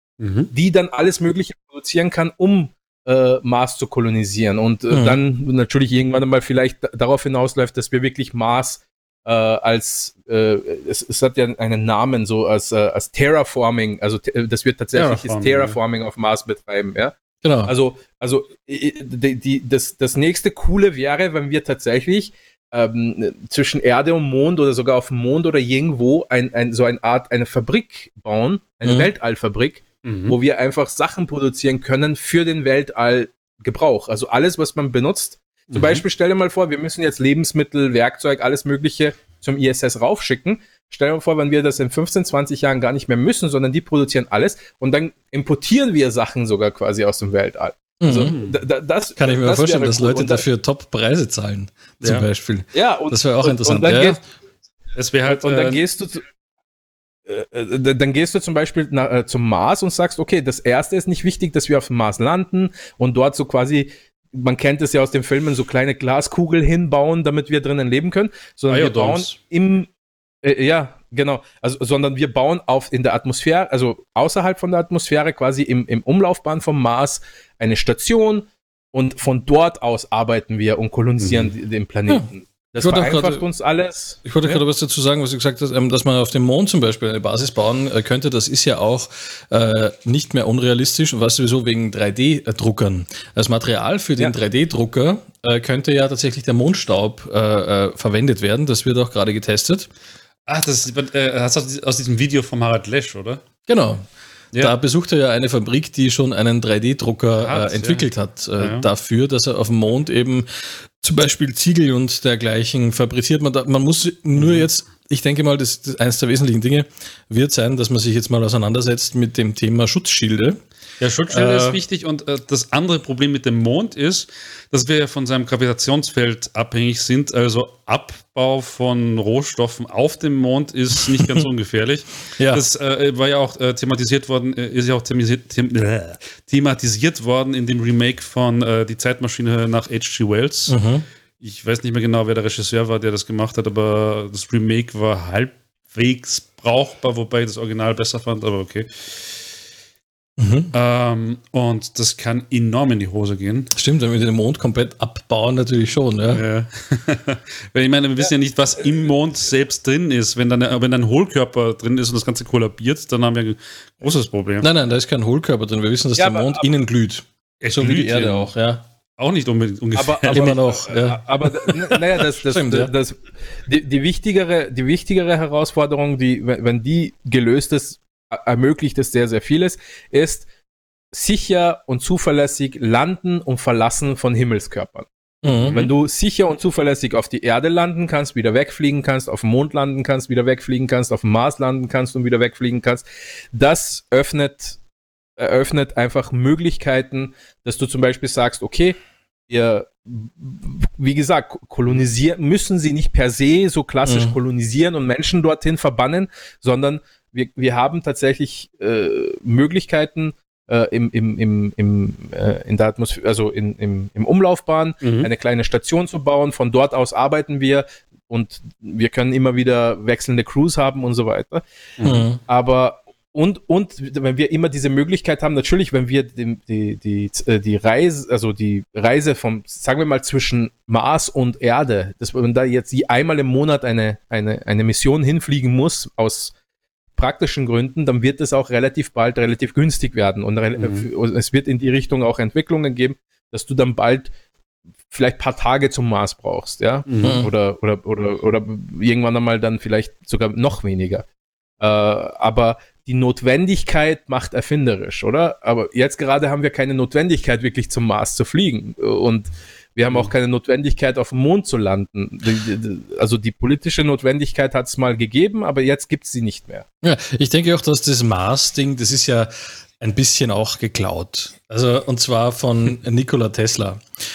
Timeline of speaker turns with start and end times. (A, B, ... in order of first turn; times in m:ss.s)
0:00.2-0:00.5 A
0:00.5-0:50.4 B
0:04.9-0:05.2 C
0:14.9-0:15.8 A
0:17.4-0:17.7 C
0:30.0-0:30.3 A
0:35.7-0:36.0 A
0:48.0-0:48.4 C
0:48.2-0:48.5 A
0:49.2-0:54.2 C
0:52.0-0:52.3 A
0:52.7-0:54.2 B
0:54.9-0:55.8 A
0:55.3-0:56.2 B
0:57.2-1:09.9 B
1:08.7-1:09.3 A
1:10.4-1:24.6 B
1:21.2-1:21.5 A
1:22.8-1:23.4 C
1:24.2-1:39.9 C
1:40.4-1:43.4 A
1:43.7-1:44.0 C
1:44.5-1:50.5 C
1:47.4-1:48.0 A
1:48.6-1:48.8 A
1:51.0-2:00.6 C
1:54.4-1:54.6 A
2:01.0-2:20.8 A
2:01.3-2:01.8 C
2:11.1-2:11.5 C
2:12.4-2:12.6 C
2:20.7-2:21.0 C
2:21.4-2:29.4 A
2:30.4-2:30.7 C
2:30.7-2:33.7 A
2:33.7-2:36.4 C
2:36.3-2:44.7 A
2:44.6-2:48.8 C
2:46.2-2:46.7 B
2:47.6-2:48.5 A
2:49.2-2:50.5 A
2:49.9-3:00.5 B
2:50.3-2:52.9 C
3:01.1-3:05.1 B
3:05.4-3:05.8 C
3:05.6-3:05.9 A
3:05.6-3:14.8 B
3:15.4-3:19.0 B
3:19.5-3:41.6 B
3:24.0-3:24.4 C
3:35.0-3:35.3 A
3:42.0-3:42.3 A
3:42.0-3:42.4 C
3:42.5-3:56.5 B
3:57.2-4:04.3 B
4:00.8-4:01.0 A
4:05.1-4:11.2 B
4:07.1-4:07.4 A
4:07.2-4:07.5 C
4:11.8-4:26.8 B
4:27.0-4:34.0 C